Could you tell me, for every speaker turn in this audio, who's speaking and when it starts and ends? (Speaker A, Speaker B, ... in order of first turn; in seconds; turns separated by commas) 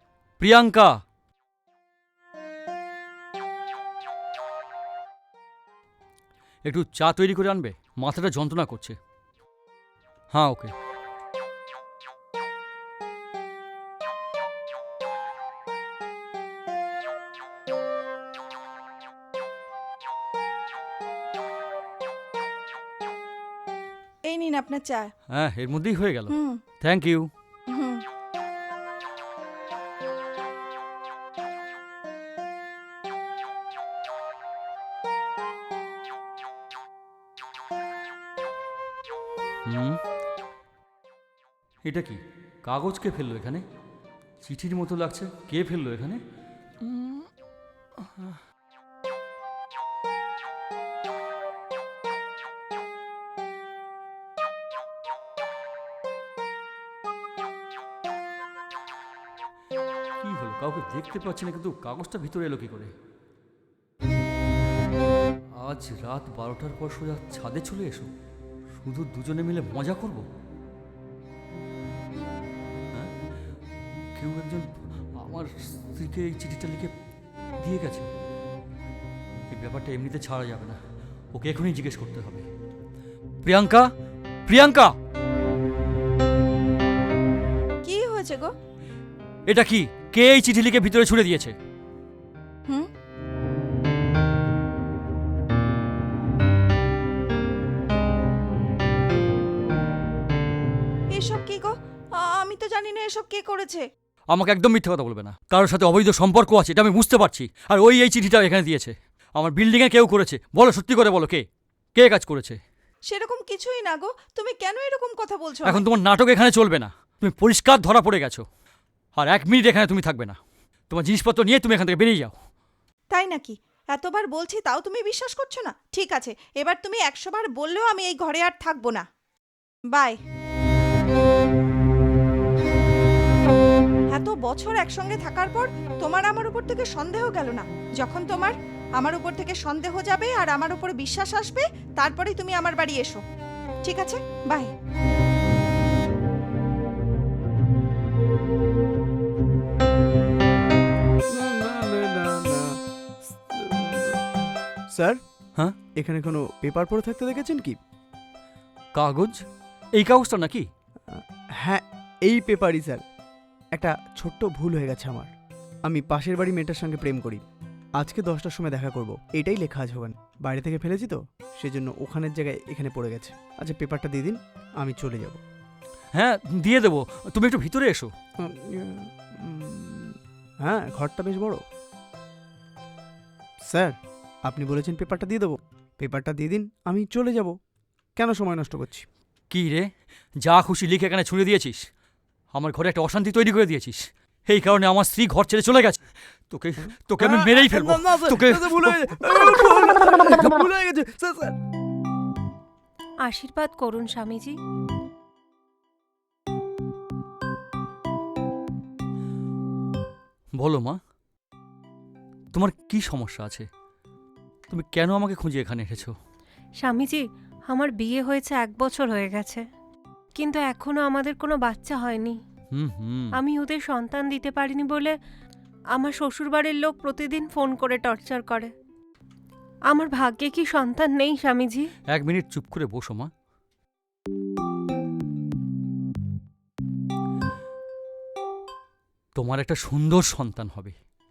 Speaker A: 0.4-1.0, Speaker A: 6.7-9.0, Speaker A: 10.3-10.7, Speaker B: 24.2-25.1, Speaker A: 25.3-27.3, Speaker B: 26.3-26.6, Speaker B: 27.7-28.0, Speaker A: 39.6-40.0, Speaker A: 41.8-43.6, Speaker A: 44.4-46.2, Speaker A: 46.8-47.3, Speaker A: 60.2-62.9, Speaker A: 65.6-68.1, Speaker A: 68.8-70.3, Speaker A: 74.2-76.9, Speaker A: 77.6-78.1, Speaker A: 79.5-80.8, Speaker A: 81.3-82.5, Speaker A: 83.4-83.9, Speaker A: 84.5-85.0, Speaker B: 87.8-88.5, Speaker A: 89.5-91.5, Speaker B: 101.1-103.8, Speaker A: 104.3-112.6, Speaker B: 113.1-115.8, Speaker A: 115.7-118.5, Speaker A: 119.2-120.4, Speaker A: 120.9-122.3, Speaker B: 123.1-129.1, Speaker B: 129.9-130.2, Speaker B: 134.1-143.2, Speaker B: 143.9-144.7, Speaker C: 151.3-154.2, Speaker C: 154.9-155.2, Speaker C: 156.0-157.8, Speaker A: 158.9-159.4, Speaker A: 160.0-160.7, Speaker C: 161.1-163.0, Speaker C: 163.8-165.3, Speaker C: 165.9-167.4, Speaker C: 168.0-175.4, Speaker A: 176.1-178.1, Speaker C: 178.4-181.6, Speaker C: 183.7-187.6, Speaker C: 188.2-189.1, Speaker A: 189.5-189.9, Speaker A: 190.4-191.9, Speaker A: 192.5-199.0, Speaker C: 196.8-201.6, Speaker D: 203.2-204.6, Speaker A: 210.6-211.0, Speaker A: 212.5-213.7, Speaker A: 214.7-216.1, Speaker D: 216.8-219.6, Speaker D: 220.4-222.4, Speaker A: 222.7-223.4, Speaker D: 223.4-225.2, Speaker D: 226.0-228.7, Speaker D: 229.9-231.9, Speaker A: 232.1-233.3, Speaker A: 239.3-240.9